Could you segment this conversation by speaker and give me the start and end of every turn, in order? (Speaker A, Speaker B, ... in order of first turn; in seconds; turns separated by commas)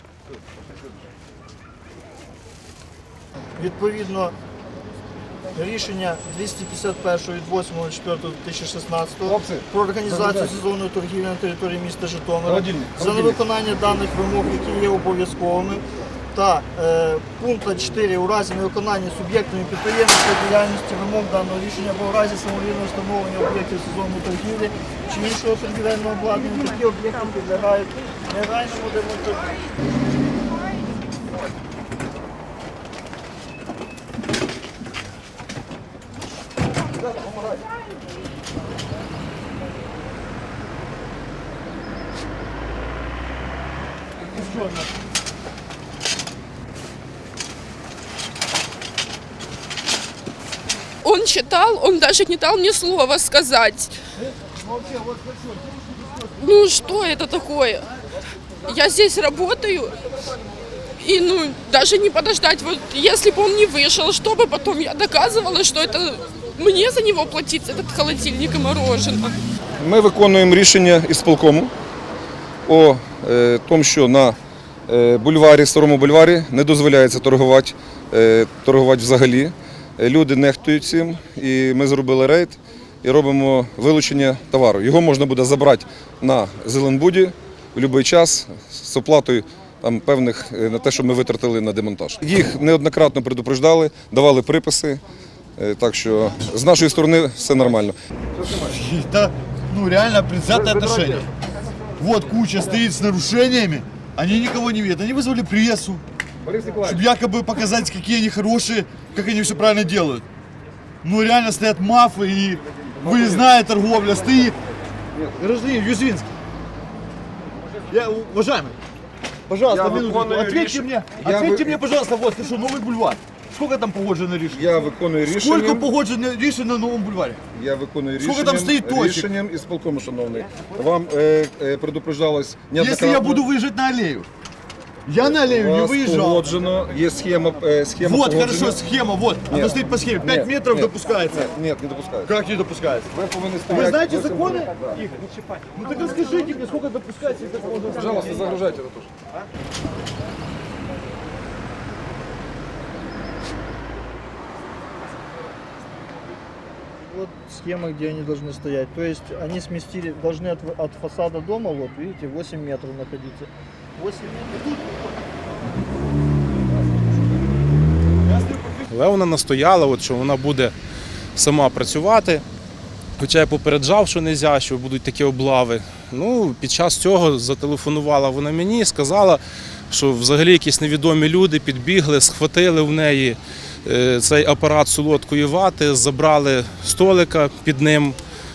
Speaker A: 3.6-4.3, Speaker A: 5.5-29.6, Speaker B: 9.2-10.5, Speaker B: 12.5-13.4, Speaker C: 51.0-54.0, Speaker C: 56.4-57.9, Speaker C: 58.6-60.0, Speaker C: 61.0-69.4, Speaker B: 69.8-71.7, Speaker B: 72.7-95.0, Speaker B: 95.6-98.7, Speaker D: 98.7-101.3, Speaker B: 100.5-101.2, Speaker D: 102.0-106.0, Speaker B: 106.4-107.0, Speaker D: 106.9-110.2, Speaker D: 111.0-114.6, Speaker B: 113.0-113.4, Speaker D: 115.4-116.3, Speaker D: 117.9-118.8, Speaker D: 119.5-124.7, Speaker B: 119.7-121.8, Speaker B: 124.5-125.9, Speaker D: 125.3-127.4, Speaker B: 127.5-133.4, Speaker D: 128.2-129.3, Speaker D: 132.8-134.3, Speaker D: 135.1-136.5, Speaker B: 135.3-138.8, Speaker D: 138.0-141.5, Speaker B: 139.5-142.3, Speaker D: 142.3-143.1, Speaker B: 143.1-145.0, Speaker D: 143.7-145.2, Speaker D: 145.8-148.4, Speaker B: 147.9-149.1, Speaker A: 157.0-164.8, Speaker E: 168.9-170.7, Speaker E: 171.3-172.4, Speaker E: 173.2-188.2